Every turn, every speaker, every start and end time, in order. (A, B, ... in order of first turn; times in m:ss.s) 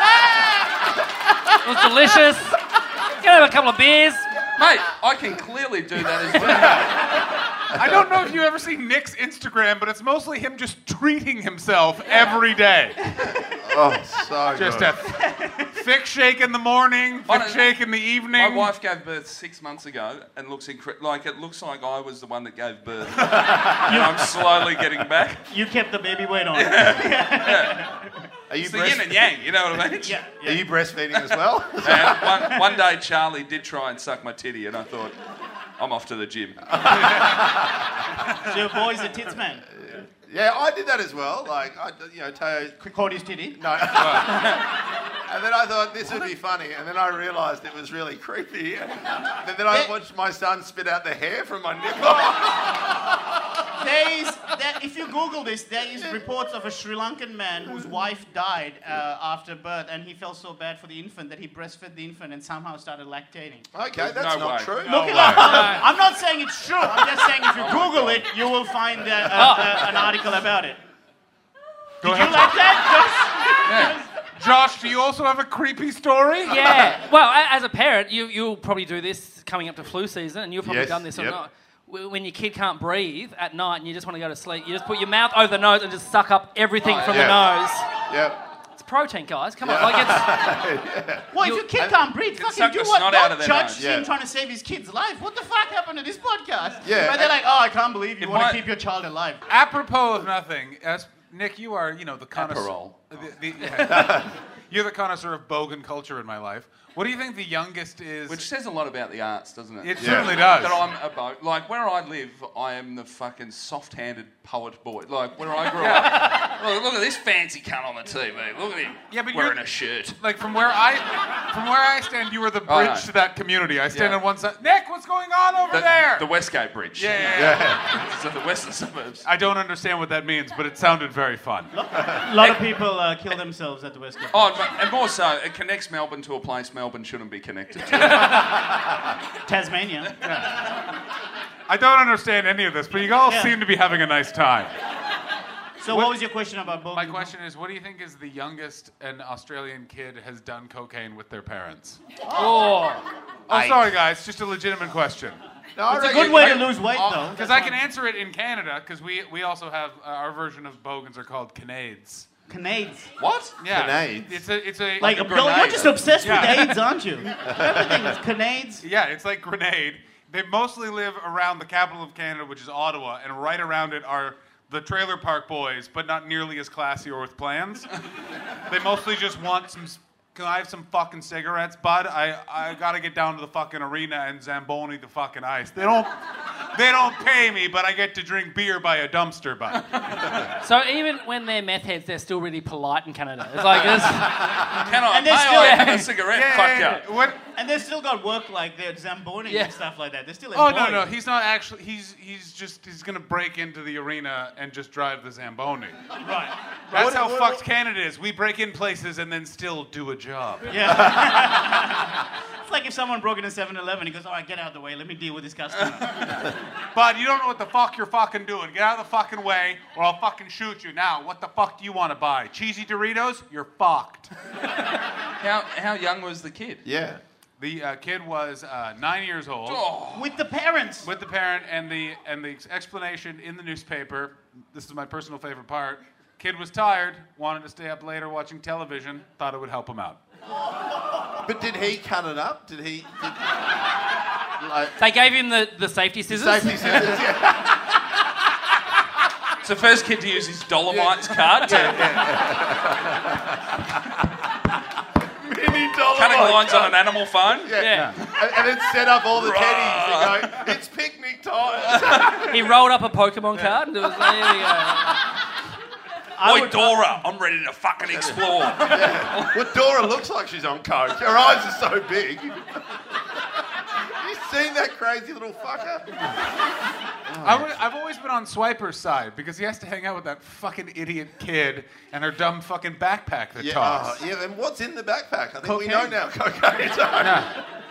0:01.6-0:04.3 A
0:04.5-0:07.2 B
0:06.4-0:07.0 C
0:07.7-0:13.1 C
0:07.7-0:08.0 D
0:13.5-0:15.0 D
0:14.5-0:18.7 C
0:15.1-0:15.8 E
0:17.3-0:17.8 B
0:18.3-0:25.4 B
0:23.4-0:24.0 D
0:25.5-0:28.1 E
0:26.5-0:27.8 B
0:28.5-0:29.3 D
0:28.6-0:30.2 B
0:30.0-0:30.7 E
0:30.4-0:32.5 D
0:31.1-0:35.2 B
0:35.8-0:37.3 B
0:36.7-0:38.0 D
0:38.4-0:39.6 E
0:39.7-0:42.8 D
0:42.8-0:43.6 E
0:43.5-0:44.6 D
0:44.0-0:44.4 C
0:44.2-0:44.6 B
0:45.2-0:53.6 D
0:53.8-1:03.7 E
1:03.7-1:05.8 D
1:04.0-1:05.3 B
1:04.8-1:10.8 E
1:04.9-1:05.7 C
1:05.4-1:05.8 A
1:07.5-1:08.3 B
1:09.3-1:09.8 A
1:12.0-1:13.0 C
1:12.0-1:14.1 E
1:13.6-1:14.0 B
1:14.4-1:16.7 C
1:16.4-1:28.0 A
1:20.6-1:21.4 D
1:26.8-1:27.4 B
1:27.1-1:27.5 D
1:28.0-1:28.4 D
1:28.7-1:30.5 A
1:29.6-1:31.9 D
1:31.3-1:39.4 E
1:32.3-1:33.8 B
1:33.8-1:34.1 D
1:36.8-1:37.4 D
1:38.2-1:38.6 B
1:39.5-1:48.4 C
1:42.3-1:43.0 B
1:43.8-1:44.3 D
1:48.3-2:00.2 B
1:49.8-1:50.8 C
1:50.0-1:50.5 D
1:55.8-1:56.4 C
1:59.1-2:06.3 C
2:02.6-2:03.1 B
2:03.9-2:04.2 B
2:05.7-2:09.2 B
2:07.0-2:07.8 C
2:07.3-2:07.8 D
2:09.2-2:11.7 C
2:11.7-2:14.6 E
2:14.3-2:18.4 B
2:17.9-2:18.6 C
2:19.4-2:20.1 E
2:20.2-2:20.6 C
2:21.7-2:24.7 C
2:23.2-2:23.6 E
2:25.8-2:27.3 E
2:25.9-2:26.2 C
2:26.9-2:32.0 C
2:32.3-2:33.0 A
2:33.5-2:35.4 C
2:33.5-2:33.9 D
2:35.8-2:37.6 D
2:35.9-2:37.7 E
2:36.1-2:36.6 B
2:37.1-2:42.3 C
2:42.5-2:43.1 E
2:43.2-2:43.6 B
2:43.6-2:46.8 C
2:43.7-2:44.4 D
2:45.0-2:46.2 B
2:45.0-2:48.8 E
2:47.4-2:48.0 D
2:48.8-2:57.9 C
2:58.6-3:10.5 C
3:09.9-3:10.5 B
3:10.6-3:14.6 A
3:14.4-3:17.0 B
3:15.1-3:16.1 E
3:15.5-3:16.1 A
3:16.2-3:17.4 C
3:17.5-3:21.1 E
3:19.4-3:19.7 A
3:20.5-3:26.0 C
3:26.2-3:26.5 E
3:26.9-3:30.9 C
3:26.9-3:27.6 D
3:30.7-3:36.5 E
3:30.8-3:31.8 D
3:36.9-3:44.3 C
3:45.4-3:46.8 B
3:46.8-3:47.2 D
3:47.6-3:49.8 C
3:49.6-3:50.3 B
3:50.1-3:51.1 E
3:51.0-4:00.2 C
4:01.3-4:03.7 D
4:04.6-4:05.0 D
4:05.0-4:07.2 A
4:06.3-4:08.1 D
4:09.6-4:12.2 B
4:10.9-4:14.0 D
4:15.2-4:17.0 D
4:16.1-4:18.4 B
4:17.6-4:22.7 D
4:17.7-4:18.2 A
4:19.3-4:20.7 B
4:21.9-4:22.5 B
4:22.5-4:25.2 A
4:26.4-4:27.2 E
4:26.4-4:29.6 B
4:28.2-4:32.8 D
4:34.0-4:36.2 D
4:37.3-4:37.7 D
4:37.4-4:44.2 C
4:43.6-4:47.6 D
4:45.6-4:46.2 E
4:47.2-4:47.6 C